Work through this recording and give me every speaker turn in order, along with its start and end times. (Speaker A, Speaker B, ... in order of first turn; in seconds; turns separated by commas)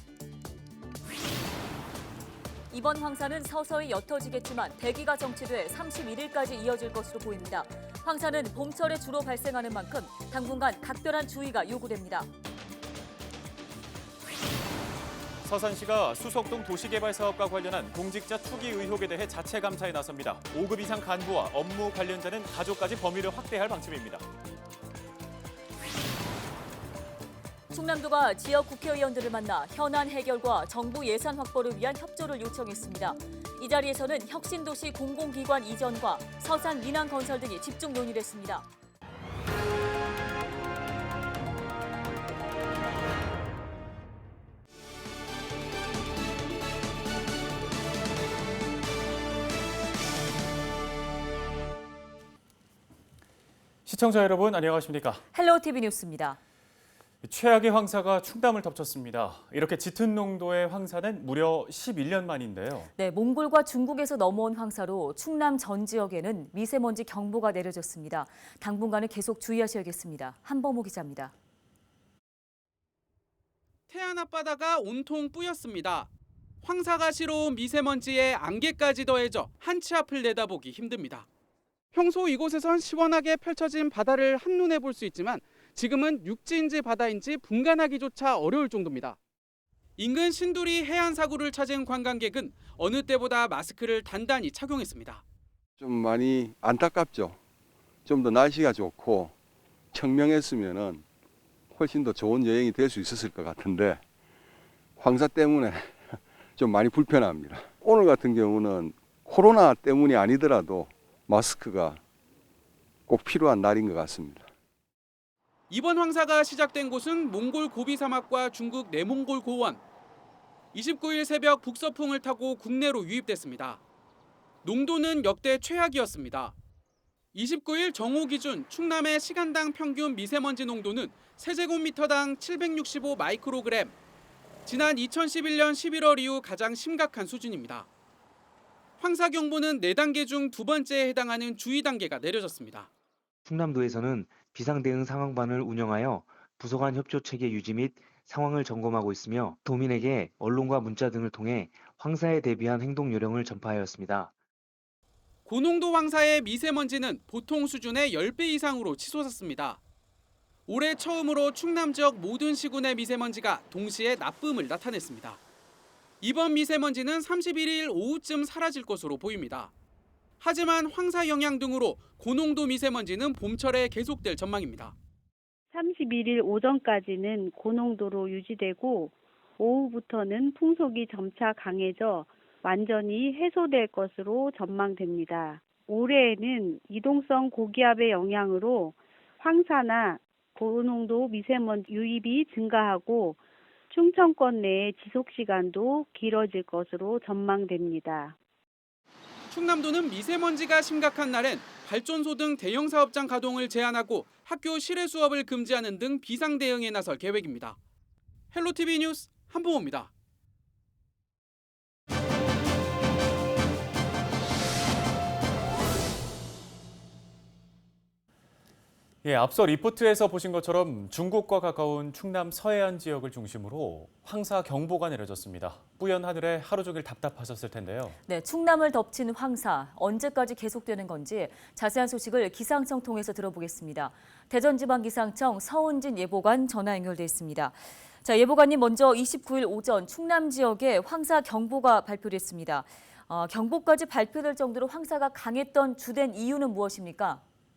Speaker A: 2.7-12.3, Speaker B: 15.4-24.3, Speaker A: 27.7-38.7, Speaker B: 53.9-55.2, Speaker A: 55.3-56.4, Speaker B: 57.2-62.9, Speaker A: 63.0-71.3, Speaker C: 73.9-76.1, Speaker C: 76.6-81.3, Speaker C: 81.9-89.2, Speaker C: 90.0-95.2, Speaker D: 95.8-97.4, Speaker D: 98.1-99.3, Speaker D: 99.9-101.0, Speaker D: 101.7-104.0, Speaker D: 105.0-112.0, Speaker D: 113.1-114.5, Speaker C: 115.7-119.8, Speaker C: 120.7-123.8, Speaker C: 124.6-126.5, Speaker C: 127.3-133.9, Speaker C: 134.7-137.9, Speaker C: 139.0-142.9, Speaker E: 143.5-154.3, Speaker C: 155.5-159.8, Speaker C: 160.7-165.4, Speaker C: 166.2-169.7, Speaker C: 170.4-174.9, Speaker F: 175.7-198.4, Speaker C: 199.5-207.8, Speaker C: 208.5-210.1, Speaker B: 219.2-228.2, Speaker A: 228.3-247.4